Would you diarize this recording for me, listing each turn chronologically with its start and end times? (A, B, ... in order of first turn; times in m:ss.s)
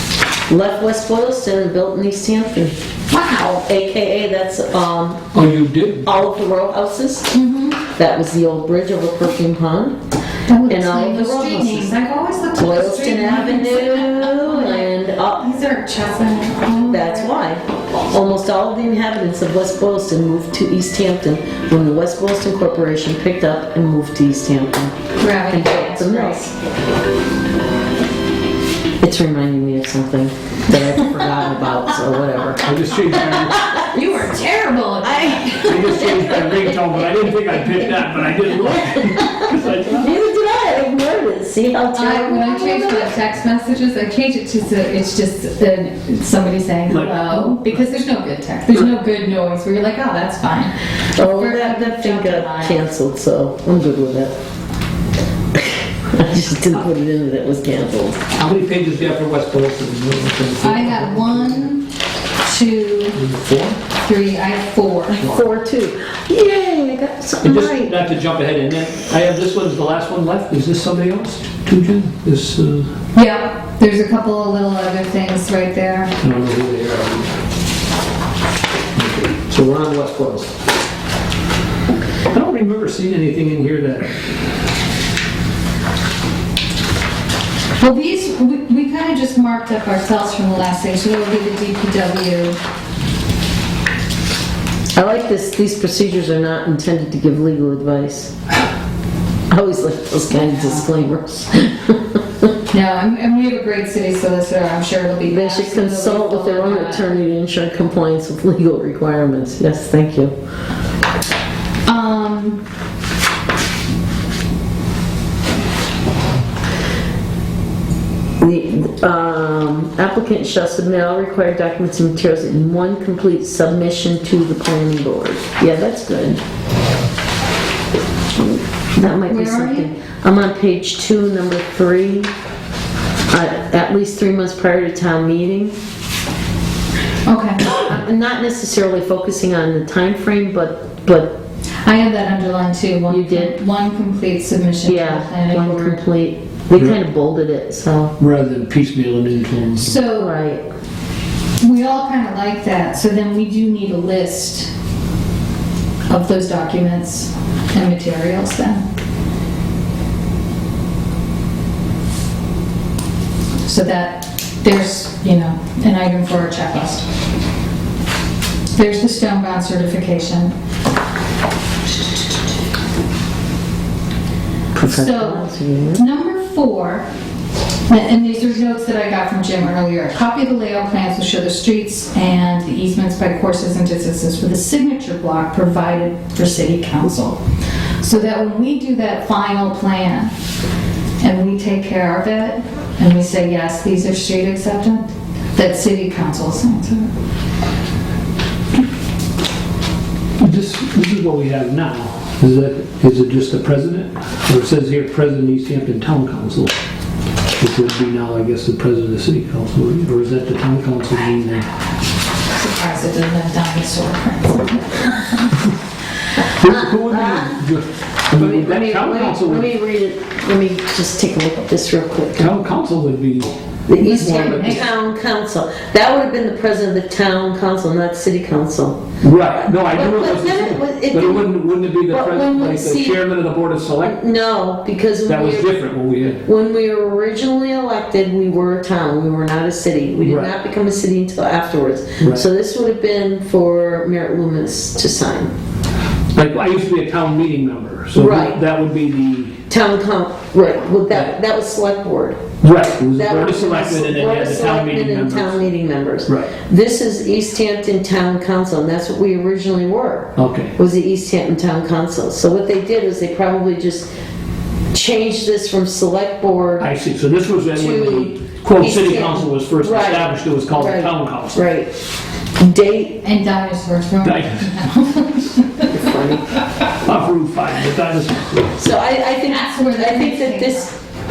0:00.5-0:02.7 A
0:03.1-0:03.6 B
0:03.6-0:05.3 A
0:05.3-0:06.1 C
0:06.0-0:09.9 A
0:07.3-0:07.8 B
0:10.5-0:17.4 B
0:10.7-0:11.9 A
0:12.6-0:15.4 A
0:16.9-0:26.5 A
0:25.2-0:26.5 B
0:29.0-0:34.2 A
0:32.6-0:33.7 C
0:33.7-0:36.3 B
0:35.0-0:43.1 A
0:35.6-0:40.2 C
0:41.9-0:52.9 B
0:46.9-0:47.8 C
0:51.2-0:54.4 A
0:55.6-0:58.2 A
0:58.3-1:01.7 C
1:00.6-1:01.9 B
1:02.4-1:03.2 B
1:03.1-1:03.8 C
1:03.9-1:05.2 B
1:05.1-1:08.0 A
1:05.2-1:05.4 C
1:07.4-1:12.9 C
1:13.1-1:16.1 B
1:16.2-1:17.3 C
1:19.0-1:20.5 C
1:22.3-1:24.3 C
1:27.8-1:32.6 B
1:34.9-1:38.3 A
1:39.5-1:42.5 A
1:40.3-1:40.9 B
1:42.7-1:47.1 B
1:45.3-1:50.3 A
1:51.8-1:52.6 B
1:58.4-2:06.4 A
2:08.4-2:12.3 A
2:09.2-2:09.9 B
2:13.3-2:15.7 A
2:17.2-2:17.8 B
2:17.6-2:21.4 A
2:21.8-2:26.0 B
2:23.1-2:23.5 A
2:24.8-2:28.2 A
2:28.2-2:30.0 C
2:29.8-2:30.3 B
2:30.1-2:30.6 A
2:31.6-2:34.7 B
2:36.1-2:38.8 B
2:43.6-2:47.0 B
2:48.7-2:50.5 B
2:54.7-2:56.0 A
2:54.8-2:57.0 B
2:57.9-3:07.4 B
3:08.0-3:10.3 B
3:11.2-3:17.1 B
3:20.4-3:26.7 C
3:27.6-3:31.7 C
3:32.5-3:35.6 B
3:36.5-3:39.7 C
3:36.6-3:37.6 A
3:38.3-3:42.6 A
3:42.4-3:43.6 C
3:43.9-3:49.0 A
3:44.0-3:44.8 B
3:44.2-3:44.8 C
3:49.2-3:54.2 C
3:49.8-3:51.6 A
3:52.1-3:53.2 A
3:54.0-3:55.8 A
3:55.3-3:56.4 C
3:56.4-4:05.5 A
4:00.2-4:00.5 C
4:02.2-4:02.4 C
4:06.3-4:09.6 C
4:08.1-4:08.6 A
4:09.7-4:12.4 A
4:12.6-4:15.7 C
4:13.1-4:24.1 A
4:16.2-4:16.5 C
4:20.4-4:20.7 C
4:24.9-4:26.9 A
4:26.8-4:31.6 C
4:27.7-4:31.9 A
4:32.6-4:33.2 A
4:33.2-4:35.9 B
4:34.2-4:34.9 C
4:35.8-4:36.6 A
4:37.0-4:38.7 C
4:38.8-4:40.9 A
4:39.4-4:40.9 B